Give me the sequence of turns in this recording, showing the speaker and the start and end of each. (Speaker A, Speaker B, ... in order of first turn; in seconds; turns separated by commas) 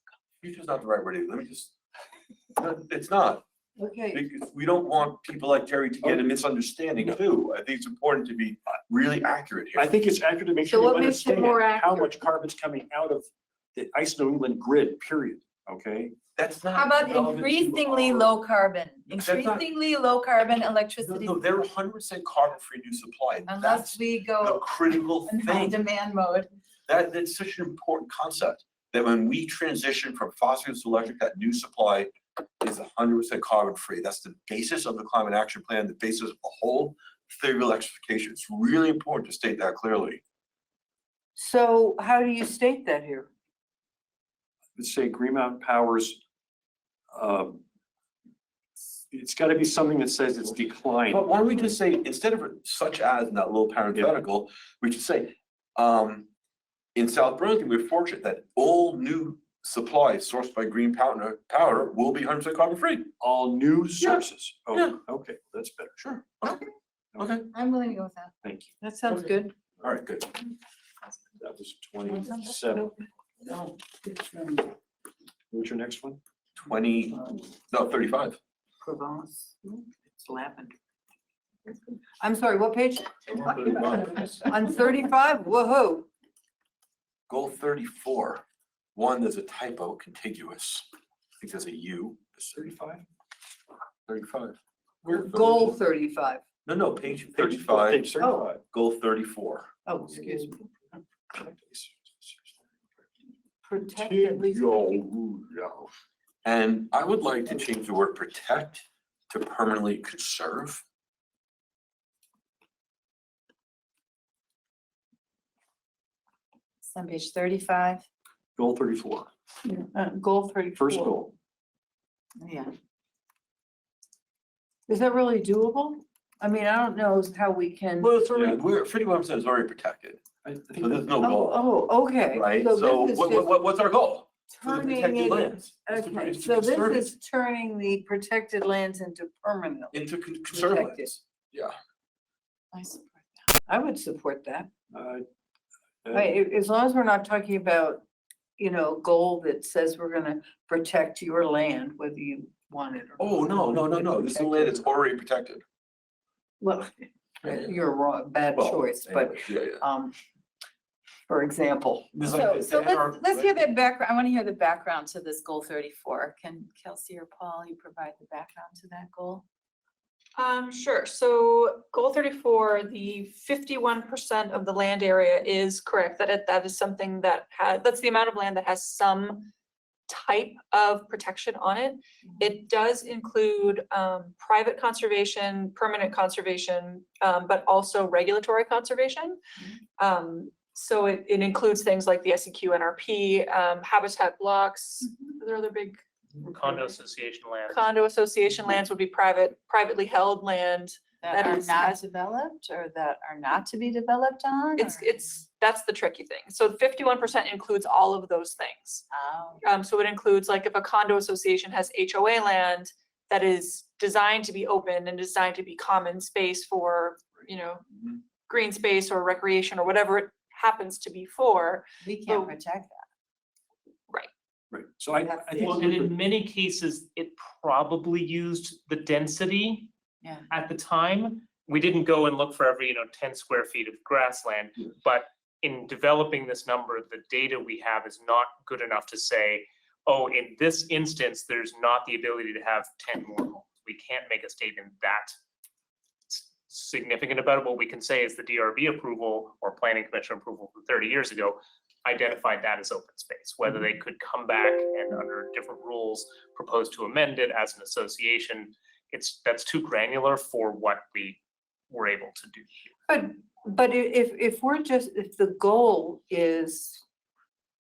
Speaker A: 0.4-1.7, Speaker A: 2.6-3.4, Speaker B: 3.8-4.2, Speaker A: 4.1-9.9, Speaker C: 9.8-16.2, Speaker D: 10.7-12.1, Speaker B: 10.7-11.4, Speaker A: 16.4-18.4, Speaker D: 16.7-21.4, Speaker A: 19.1-19.7, Speaker A: 21.0-25.8, Speaker D: 23.5-24.7, Speaker D: 25.2-26.5, Speaker A: 26.9-40.2, Speaker B: 41.4-43.3, Speaker C: 44.8-46.2, Speaker C: 47.1-47.6, Speaker C: 49.1-51.2, Speaker A: 51.1-56.3, Speaker A: 57.0-63.1, Speaker C: 63.2-65.9, Speaker A: 64.0-65.0, Speaker A: 66.0-66.7, Speaker A: 67.2-67.5, Speaker D: 67.5-68.3, Speaker C: 68.4-68.7, Speaker B: 68.8-69.5, Speaker A: 69.8-70.3, Speaker C: 71.4-72.9, Speaker B: 73.5-74.7, Speaker C: 75.5-76.2, Speaker A: 76.6-78.4, Speaker B: 78.8-80.7, Speaker B: 82.2-86.1, Speaker A: 83.4-84.4, Speaker A: 87.3-88.4, Speaker A: 89.0-90.8, Speaker A: 91.4-92.4, Speaker C: 92.5-93.0, Speaker A: 94.1-95.8, Speaker B: 95.0-96.4, Speaker A: 96.7-98.1, Speaker C: 97.3-98.6, Speaker B: 98.2-98.5, Speaker A: 98.7-99.7, Speaker B: 99.9-100.5, Speaker C: 100.2-100.5, Speaker C: 101.3-102.5, Speaker B: 103.7-104.8, Speaker C: 104.0-105.9, Speaker A: 106.5-110.8, Speaker D: 116.9-118.0, Speaker C: 118.6-119.3, Speaker B: 119.7-121.2, Speaker C: 120.8-121.3, Speaker D: 122.4-122.7, Speaker B: 124.9-128.1, Speaker A: 128.0-131.6, Speaker C: 128.3-128.6, Speaker C: 130.4-131.0, Speaker B: 131.2-133.5, Speaker A: 132.3-137.1, Speaker B: 134.5-140.0, Speaker A: 139.9-141.8, Speaker B: 140.5-141.1, Speaker D: 142.7-143.5, Speaker B: 143.7-144.7, Speaker C: 144.9-145.3, Speaker C: 146.0-146.3, Speaker B: 146.1-148.0, Speaker B: 148.6-154.8, Speaker A: 153.2-155.6, Speaker B: 156.6-160.1, Speaker A: 158.6-159.8, Speaker B: 161.3-162.6, Speaker A: 162.1-163.6, Speaker D: 162.5-169.4, Speaker E: 170.4-179.5, Speaker E: 180.1-189.4, Speaker E: 190.0-196.9, Speaker F: 196.5-197.8, Speaker E: 197.7-202.0, Speaker D: 201.2-205.4, Speaker E: 204.8-209.1, Speaker D: 209.1-209.6, Speaker E: 209.6-217.8, Speaker E: 218.5-222.6, Speaker D: 222.0-223.0, Speaker C: 224.7-226.2, Speaker F: 225.6-229.9, Speaker F: 230.5-245.3, Speaker F: 246.3-262.9, Speaker B: 263.1-267.0